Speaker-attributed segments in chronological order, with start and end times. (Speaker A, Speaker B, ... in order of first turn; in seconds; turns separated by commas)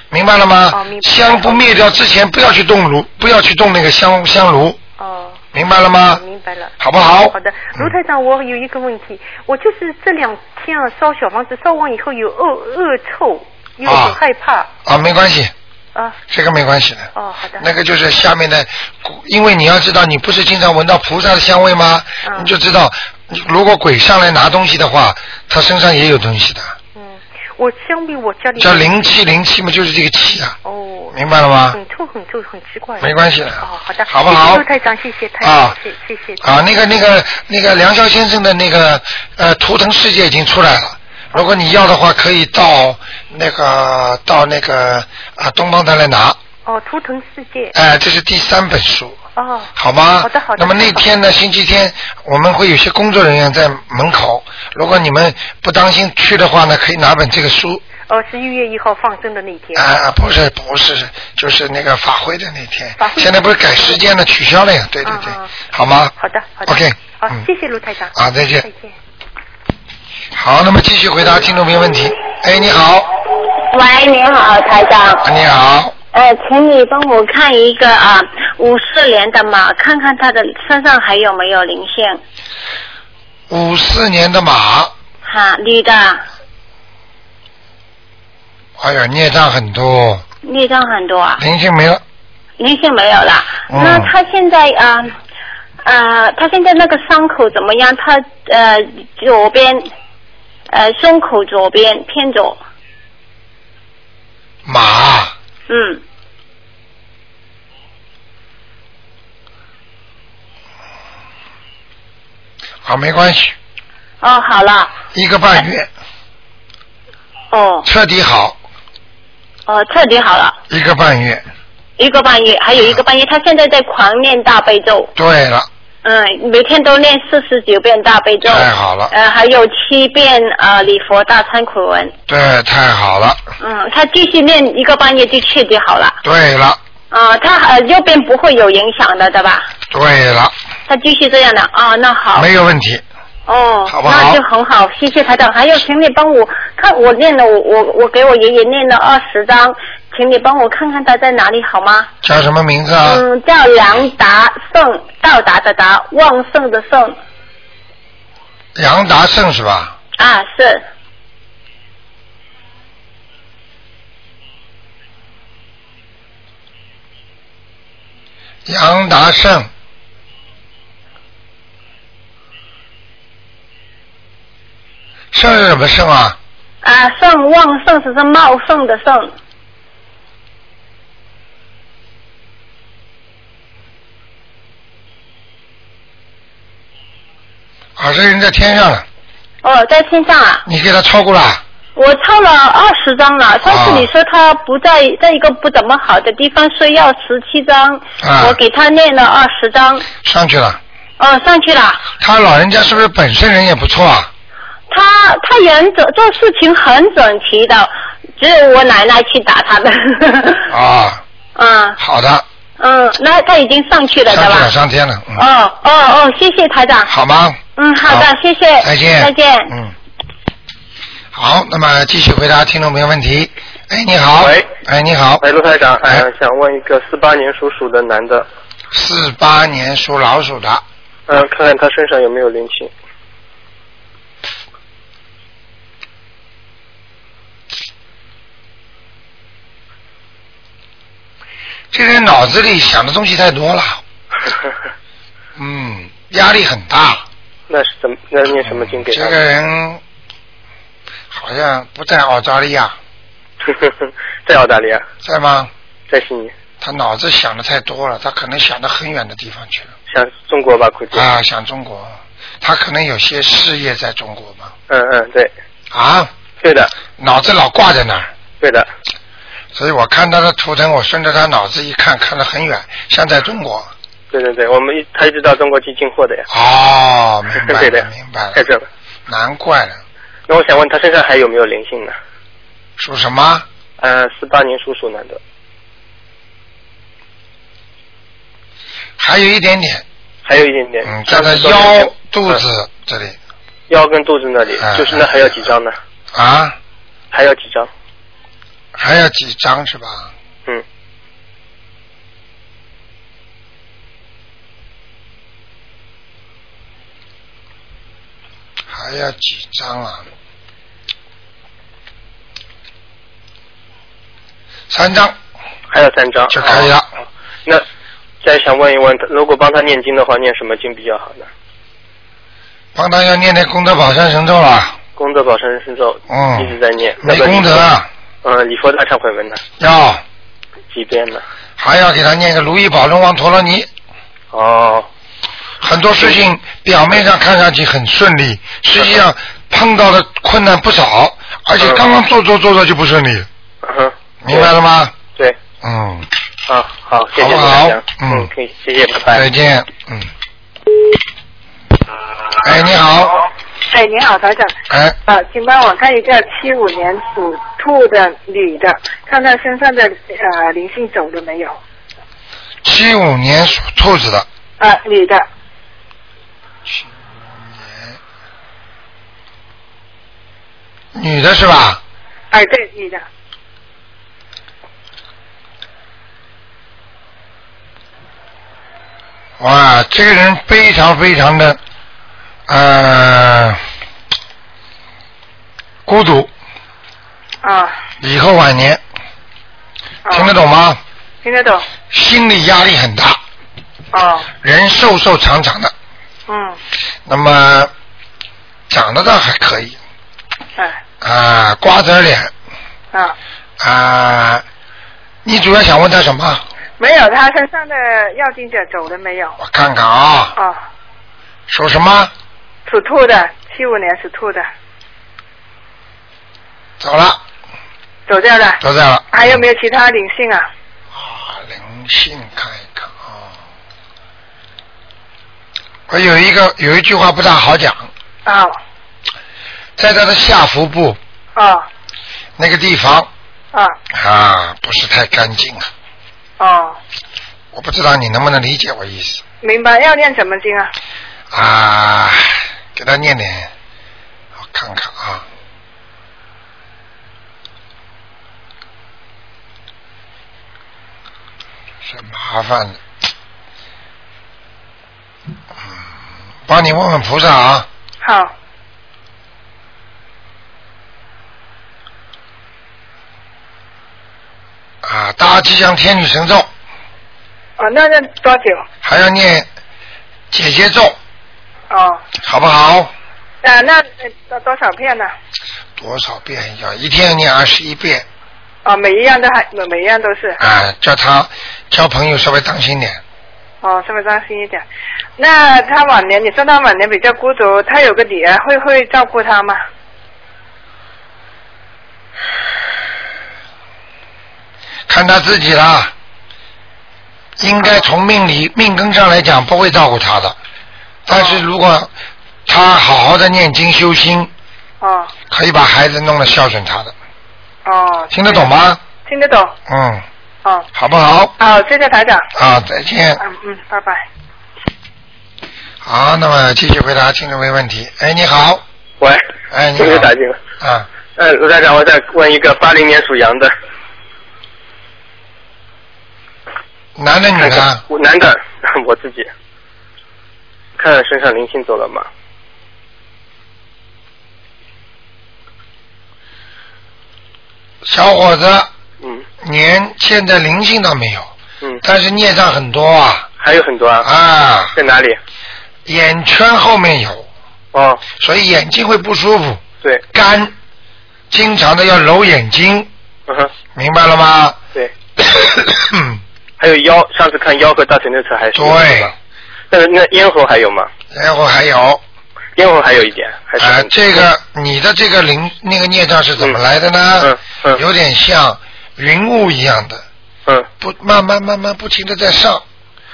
Speaker A: 0.1-4.8, Speaker B: 0.7-1.8, Speaker B: 5.0-5.4, Speaker A: 5.5-6.2, Speaker B: 6.1-14.7, Speaker A: 6.8-7.9, Speaker A: 13.8-14.2, Speaker A: 14.8-15.5, Speaker A: 16.3-26.7, Speaker B: 17.1-17.6, Speaker B: 22.2-22.5, Speaker B: 26.9-28.9, Speaker A: 28.6-30.6, Speaker B: 30.6-31.2, Speaker A: 31.1-31.8, Speaker B: 31.7-36.4, Speaker A: 33.0-34.6, Speaker A: 35.4-35.8, Speaker A: 36.4-46.4, Speaker B: 46.6-47.7, Speaker A: 47.7-49.2, Speaker B: 49.4-51.1, Speaker A: 49.8-57.8, Speaker B: 58.1-59.9, Speaker A: 59.7-66.1, Speaker B: 63.0-64.0, Speaker B: 65.0-65.5, Speaker B: 66.2-68.9, Speaker A: 66.7-67.5, Speaker A: 68.1-68.7, Speaker A: 70.3-73.1, Speaker C: 73.7-75.3, Speaker A: 75.2-75.9, Speaker C: 76.1-82.2, Speaker A: 83.5-84.9, Speaker C: 85.2-86.2, Speaker A: 88.8-90.2, Speaker C: 90.4-91.4, Speaker A: 91.4-92.0, Speaker C: 92.6-95.1, Speaker A: 93.7-94.1, Speaker C: 95.8-99.8, Speaker C: 100.7-102.6, Speaker A: 104.7-105.3, Speaker C: 105.7-106.0, Speaker A: 112.8-113.5, Speaker C: 114.2-114.9, Speaker A: 115.1-115.9, Speaker C: 117.5-117.9, Speaker A: 117.8-118.6, Speaker C: 119.7-120.6, Speaker A: 120.7-121.4, Speaker C: 122.0-125.1, Speaker A: 125.2-125.7, Speaker C: 126.0-132.1, Speaker A: 128.4-129.1, Speaker A: 132.3-133.4, Speaker C: 133.6-136.2, Speaker A: 136.2-136.8, Speaker C: 137.1-139.7, Speaker A: 139.9-140.5, Speaker C: 140.9-142.5, Speaker A: 142.3-143.0, Speaker C: 143.5-152.1, Speaker A: 143.8-144.4, Speaker A: 152.2-153.2, Speaker C: 153.0-157.2, Speaker A: 158.8-159.9, Speaker C: 160.2-160.8, Speaker A: 168.7-169.7, Speaker A: 175.3-176.4, Speaker C: 176.8-179.3, Speaker A: 188.0-189.0, Speaker C: 189.6-190.6, Speaker A: 190.7-191.6, Speaker C: 191.9-200.1, Speaker A: 193.6-194.1, Speaker A: 198.2-198.6, Speaker A: 200.2-200.8, Speaker C: 201.2-202.1, Speaker A: 202.2-204.3, Speaker C: 204.9-210.7, Speaker A: 210.7-211.2, Speaker C: 211.6-212.0, Speaker A: 212.0-212.4, Speaker C: 212.8-214.7, Speaker A: 214.3-215.4, Speaker C: 215.3-217.1, Speaker A: 217.1-218.3, Speaker C: 217.8-219.7, Speaker A: 218.8-219.9, Speaker A: 221.3-225.4, Speaker D: 224.4-224.7, Speaker D: 225.4-228.5, Speaker A: 228.9-230.8, Speaker D: 231.3-232.9, Speaker A: 241.9-244.0, Speaker A: 245.6-247.2, Speaker D: 247.7-249.4, Speaker A: 248.6-250.0, Speaker A: 251.3-253.0, Speaker D: 253.6-255.0, Speaker A: 255.2-255.7, Speaker D: 256.1-256.5, Speaker A: 256.8-259.9, Speaker D: 260.1-261.3, Speaker A: 261.1-264.7, Speaker D: 264.9-265.5, Speaker A: 265.9-266.3, Speaker D: 266.6-266.9, Speaker A: 267.2-268.3, Speaker D: 268.6-268.9, Speaker A: 269.7-273.9, Speaker D: 274.3-276.4, Speaker A: 276.5-278.6, Speaker D: 277.6-278.9, Speaker A: 279.3-280.0, Speaker D: 280.5-282.1, Speaker A: 283.0-283.6, Speaker D: 284.0-285.4, Speaker A: 289.2-290.0, Speaker D: 290.4-292.6, Speaker A: 291.0-293.4, Speaker D: 293.9-295.9, Speaker A: 294.8-295.7, Speaker A: 296.3-296.8, Speaker D: 297.3-297.9, Speaker A: 298.9-300.3, Speaker A: 308.9-310.3, Speaker A: 314.9-315.4, Speaker D: 315.9-316.9, Speaker A: 316.5-317.1, Speaker D: 318.4-321.5, Speaker A: 322.9-325.0, Speaker D: 325.2-327.9, Speaker A: 326.3-328.1, Speaker D: 328.4-329.6, Speaker A: 329.8-330.2, Speaker D: 330.9-331.4, Speaker A: 331.8-333.9, Speaker D: 334.5-335.1, Speaker A: 335.8-343.5, Speaker D: 339.0-339.2, Speaker D: 343.8-344.7, Speaker A: 344.4-345.1, Speaker A: 345.8-346.3, Speaker D: 346.7-349.4, Speaker A: 347.3-348.5, Speaker A: 349.3-350.3, Speaker A: 352.6-353.4, Speaker E: 353.9-354.7, Speaker A: 354.9-355.2, Speaker E: 355.3-361.8, Speaker A: 362.8-364.5, Speaker E: 364.8-365.5, Speaker A: 366.9-368.2, Speaker A: 371.1-372.0, Speaker E: 372.5-373.2, Speaker A: 379.6-381.8, Speaker A: 382.7-383.8, Speaker A: 386.1-386.5, Speaker E: 387.6-387.9, Speaker A: 388.2-389.0, Speaker E: 390.3-390.5, Speaker A: 390.3-391.0, Speaker E: 391.4-391.8, Speaker A: 392.1-393.4, Speaker E: 394.1-394.5, Speaker A: 394.6-395.9, Speaker E: 396.5-396.8, Speaker A: 397.2-397.9, Speaker A: 398.9-400.0, Speaker A: 401.2-402.5, Speaker A: 403.8-404.6, Speaker A: 405.4-406.6, Speaker E: 407.0-409.6, Speaker A: 409.6-410.5, Speaker A: 411.7-412.3, Speaker E: 412.9-414.6, Speaker A: 417.0-417.4, Speaker E: 418.3-418.8, Speaker A: 418.8-419.6, Speaker E: 419.3-420.7, Speaker A: 421.1-423.5, Speaker A: 426.1-428.1, Speaker E: 428.4-428.8, Speaker A: 430.0-431.2, Speaker E: 431.6-431.9, Speaker A: 432.6-433.3, Speaker A: 434.1-435.9, Speaker E: 436.6-437.0, Speaker A: 437.7-439.4, Speaker E: 439.6-440.9, Speaker A: 441.5-443.7, Speaker A: 444.6-445.4, Speaker A: 452.0-453.0, Speaker A: 456.7-457.9, Speaker E: 458.2-458.5, Speaker A: 465.0-466.7, Speaker E: 467.8-468.8, Speaker A: 469.0-469.7, Speaker A: 470.5-471.2, Speaker E: 471.9-472.2, Speaker A: 472.4-473.1, Speaker E: 473.6-475.3, Speaker A: 476.0-478.2, Speaker E: 478.8-480.6, Speaker A: 480.6-483.2, Speaker E: 483.8-484.9, Speaker E: 485.4-489.8, Speaker A: 495.1-496.1, Speaker A: 497.6-500.6, Speaker A: 501.2-502.1, Speaker E: 501.3-501.6, Speaker A: 502.6-504.5, Speaker E: 505.0-505.3, Speaker A: 505.5-507.1, Speaker E: 507.9-508.7, Speaker A: 508.3-509.0, Speaker E: 509.2-509.7, Speaker A: 509.9-510.2, Speaker A: 510.9-511.5, Speaker E: 511.6-512.5, Speaker A: 512.5-513.4, Speaker E: 513.4-514.2, Speaker A: 516.0-518.8, Speaker A: 519.7-521.1, Speaker D: 520.0-520.6, Speaker D: 521.4-523.7, Speaker A: 527.1-528.0, Speaker D: 527.6-529.5, Speaker D: 531.0-532.3, Speaker A: 538.0-538.9, Speaker A: 539.6-541.5, Speaker A: 542.0-543.5, Speaker D: 543.6-544.3, Speaker A: 544.2-545.0, Speaker D: 544.9-545.4, Speaker A: 546.0-547.5, Speaker D: 547.9-548.2, Speaker A: 548.4-549.8, Speaker A: 550.3-550.7, Speaker A: 551.5-553.1, Speaker A: 553.9-554.8, Speaker A: 555.4-556.4, Speaker D: 556.8-559.3, Speaker A: 558.7-559.3, Speaker D: 559.9-561.1, Speaker A: 561.3-562.2, Speaker D: 562.8-564.5, Speaker A: 563.8-570.2, Speaker D: 567.4-568.0, Speaker A: 571.0-572.8